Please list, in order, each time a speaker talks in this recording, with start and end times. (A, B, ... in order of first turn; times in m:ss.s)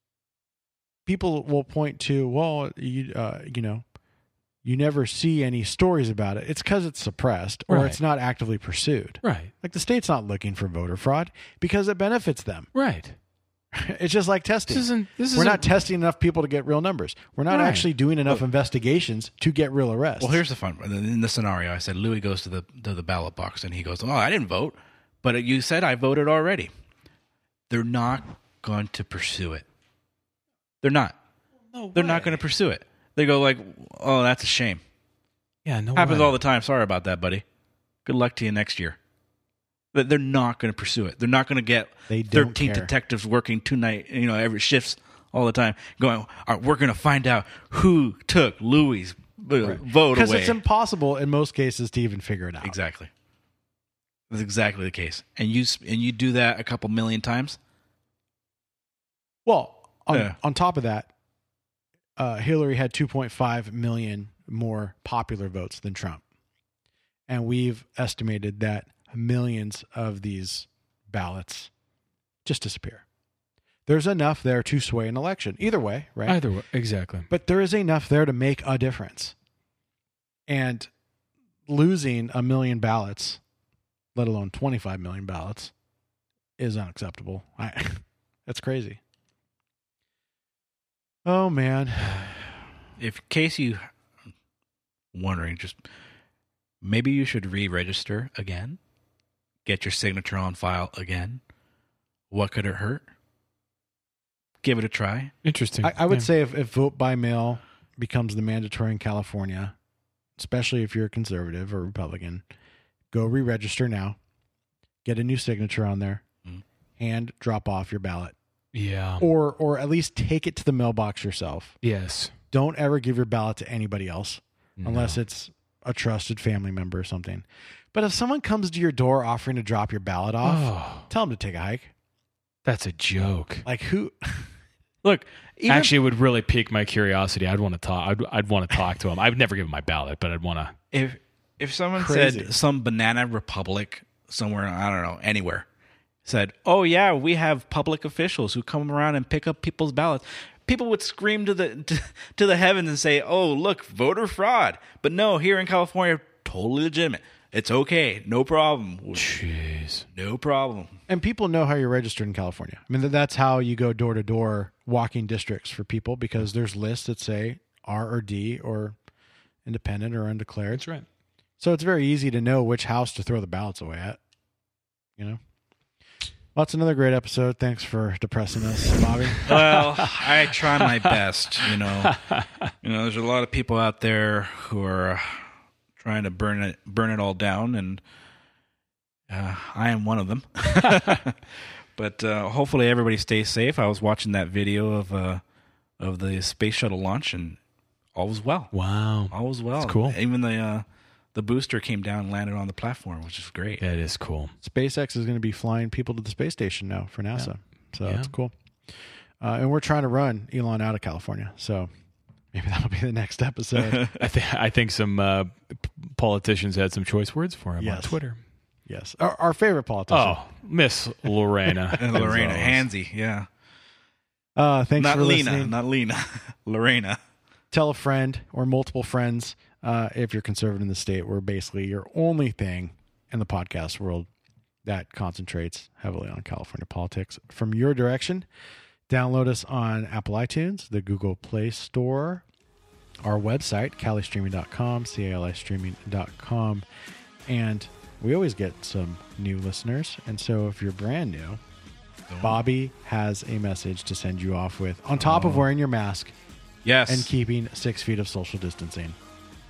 0:01.0-0:03.8 A
0:04.6-0:12.7 A
0:07.7-0:08.0 B
0:09.2-0:09.5 B
0:12.7-0:13.2 B
0:13.7-0:20.4 A
0:14.7-0:15.8 B
0:17.5-0:17.9 B
0:20.2-0:26.7 C
0:27.7-0:29.6 C
0:30.8-0:31.2 C
0:31.7-0:32.3 B
0:31.9-0:34.8 C
0:35.6-0:36.3 B
0:35.9-0:37.4 C
0:38.0-0:39.0 C
0:39.9-0:50.6 C
0:42.1-0:42.9 A
0:49.6-0:52.8 A
0:52.6-0:53.1 C
0:54.3-0:57.6 C
0:59.4-1:01.1 A
1:02.2-1:06.2 A
1:07.3-1:11.7 A
1:12.4-1:13.0 A
1:13.8-1:16.4 A
1:16.2-1:17.3 B
1:17.3-1:19.4 A
1:20.5-1:20.9 A
1:21.7-1:23.4 A
1:24.1-1:25.7 A
1:26.6-1:29.0 A
1:31.2-1:32.3 A
1:33.0-1:33.8 C
1:35.1-1:35.8 C
1:36.8-1:38.8 C
1:39.6-1:41.4 C
1:42.3-1:43.0 C
1:44.6-1:45.3 C
1:45.4-1:46.3 B
1:45.8-1:49.8 A
1:50.4-1:52.4 A
1:53.1-1:54.2 A
1:55.0-1:56.2 A
1:57.0-1:58.3 A
1:58.7-1:59.3 B
1:59.2-2:01.8 A
2:01.8-2:02.3 B
2:02.5-2:11.9 A
2:04.8-2:05.2 B
2:10.4-2:11.1 B
2:12.6-2:13.6 B
2:13.6-2:14.5 A
2:15.0-2:15.9 C
2:15.7-2:20.8 B
2:20.9-2:25.6 C
2:22.0-2:22.5 A
2:26.2-2:39.3 C
2:39.1-2:40.1 B
2:40.1-2:40.9 C
2:41.1-2:49.0 A
2:49.6-2:50.9 A
2:50.7-2:51.0 B
2:51.6-2:54.2 A
2:56.5-2:59.6 A
2:59.4-3:01.1 B
2:59.5-3:02.2 C
3:02.0-3:02.7 B
3:02.8-3:08.0 C
3:09.3-3:11.4 C
3:12.0-3:15.4 C
3:16.0-3:17.6 C
3:18.1-3:18.7 C
3:18.7-3:20.2 B
3:19.3-3:23.8 C
3:23.8-3:24.5 B
3:24.6-3:28.5 A
3:28.0-3:28.3 B
3:29.4-3:31.9 A
3:32.5-3:34.0 A
3:33.8-3:34.1 C
3:34.2-3:38.4 B
3:37.8-3:38.2 A
3:38.9-3:40.4 A
3:40.1-3:42.8 B
3:42.0-3:42.4 A
3:42.0-3:43.5 C
3:44.6-3:45.7 A
3:45.0-3:47.2 C
3:47.7-3:54.3 A
3:54.8-3:58.5 A
3:59.1-4:02.4 A
4:03.2-4:06.8 A
4:07.4-4:11.6 A
4:12.3-4:12.6 C
4:12.4-4:16.3 A
4:15.2-4:15.6 C
4:16.8-4:17.3 C
4:17.1-4:19.2 A